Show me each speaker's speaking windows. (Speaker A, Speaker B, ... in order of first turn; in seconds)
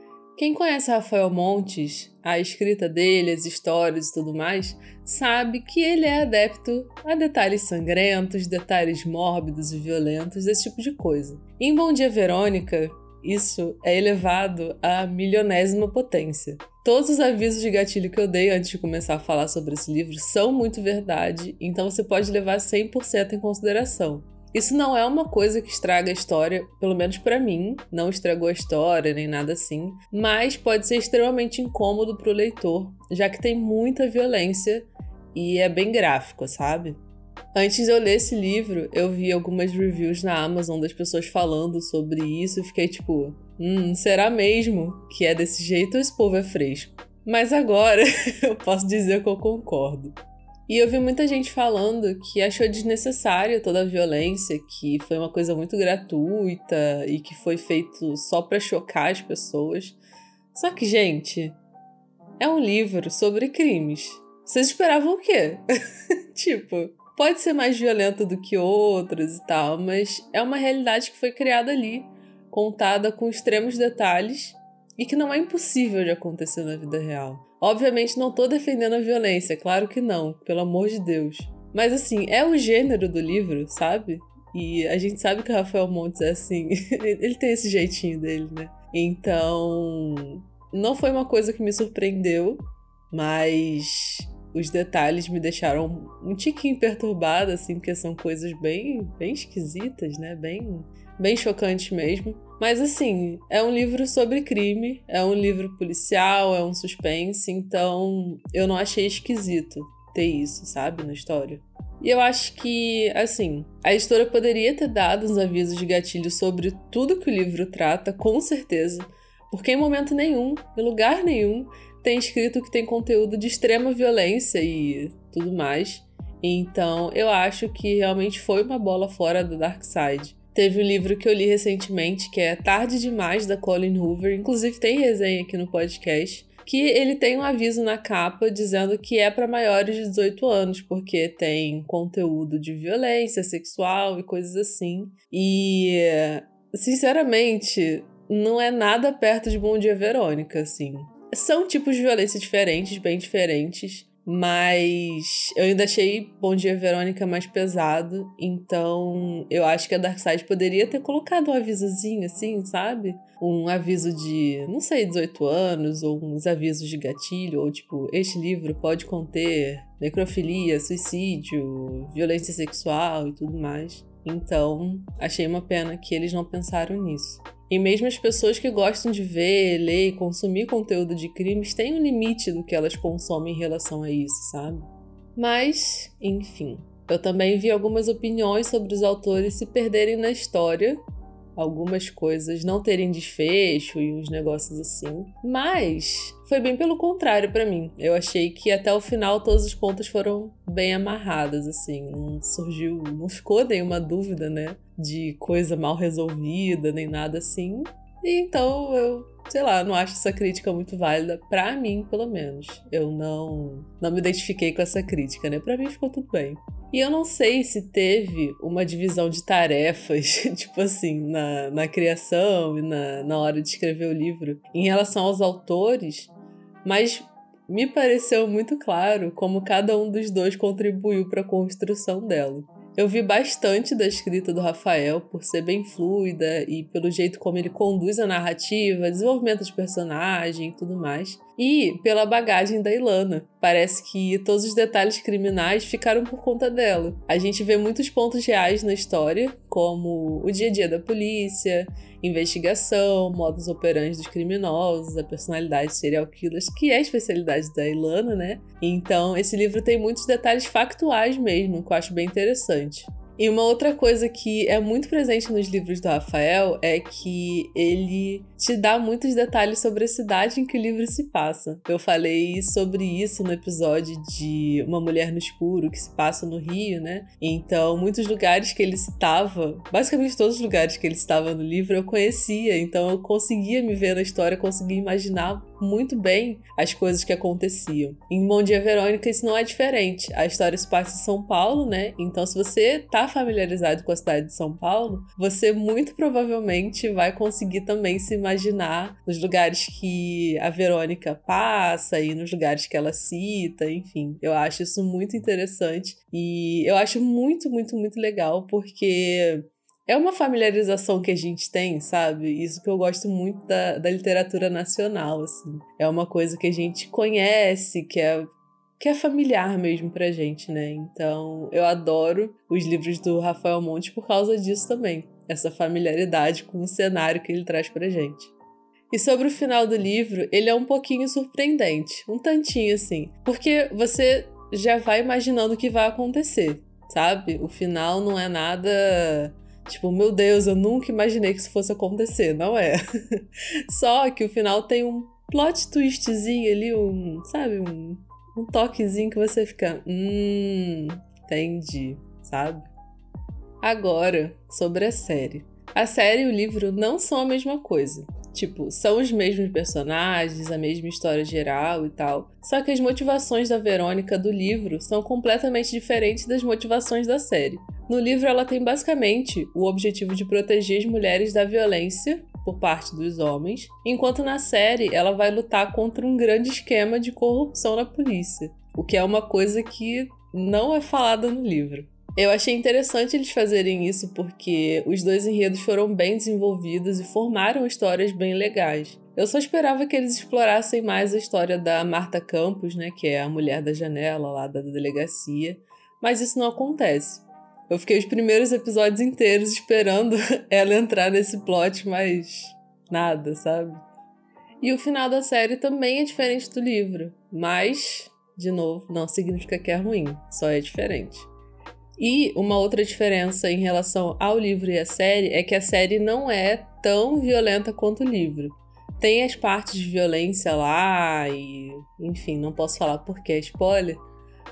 Speaker A: 0.4-37.0, 37.5-50.2, 50.7-60.0, 60.5-61.6, 62.4-65.6, 66.3-191.0, 191.6-226.3, 226.8-328.5, 329.1-352.9, 353.8-404.0, 404.8-411.5, 412.2-424.2